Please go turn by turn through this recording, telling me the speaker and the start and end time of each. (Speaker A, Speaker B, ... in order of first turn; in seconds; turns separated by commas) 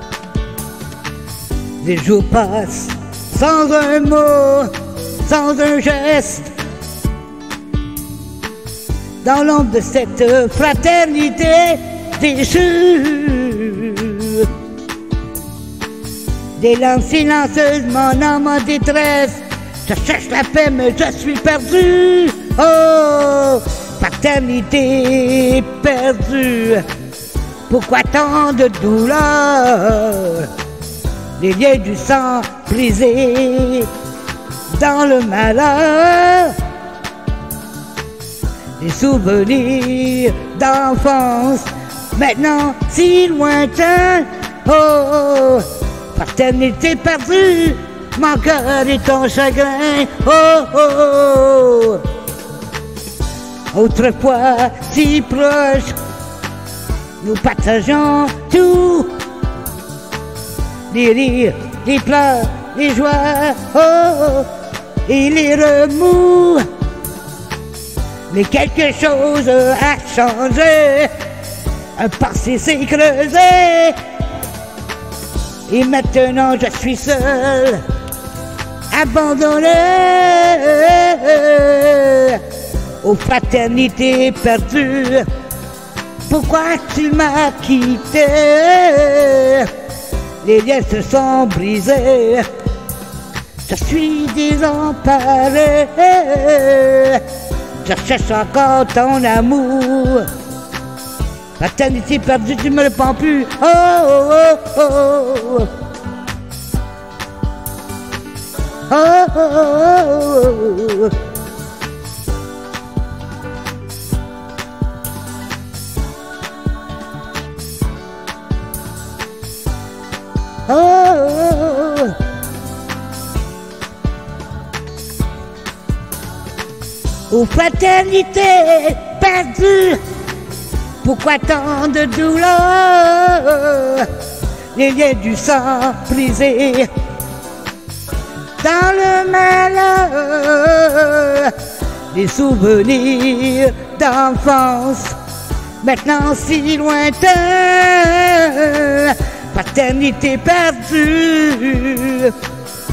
Speaker A: 1.8-4.7, Speaker A: 5.2-6.5, Speaker A: 9.2-14.5, Speaker A: 16.6-26.8, Speaker A: 27.7-30.5, Speaker A: 31.4-33.9, Speaker A: 34.7-36.6, Speaker A: 38.8-52.0, Speaker A: 53.7-56.0, Speaker A: 57.2-59.1, Speaker A: 60.9-64.5, Speaker A: 65.0-66.7, Speaker A: 68.3-71.1, Speaker A: 72.0-74.0, Speaker A: 75.7-77.8, Speaker A: 78.9-82.4, Speaker A: 83.0-85.3, Speaker A: 86.3-89.7, Speaker A: 90.4-92.5, Speaker A: 93.7-97.2, Speaker A: 97.8-100.3, Speaker A: 101.6-105.7, Speaker A: 108.9-111.1, Speaker A: 120.7-122.2, Speaker A: 127.3-130.0, Speaker A: 131.0-134.1, Speaker A: 134.7-136.9, Speaker A: 138.6-141.5, Speaker A: 142.1-145.2, Speaker A: 145.8-152.3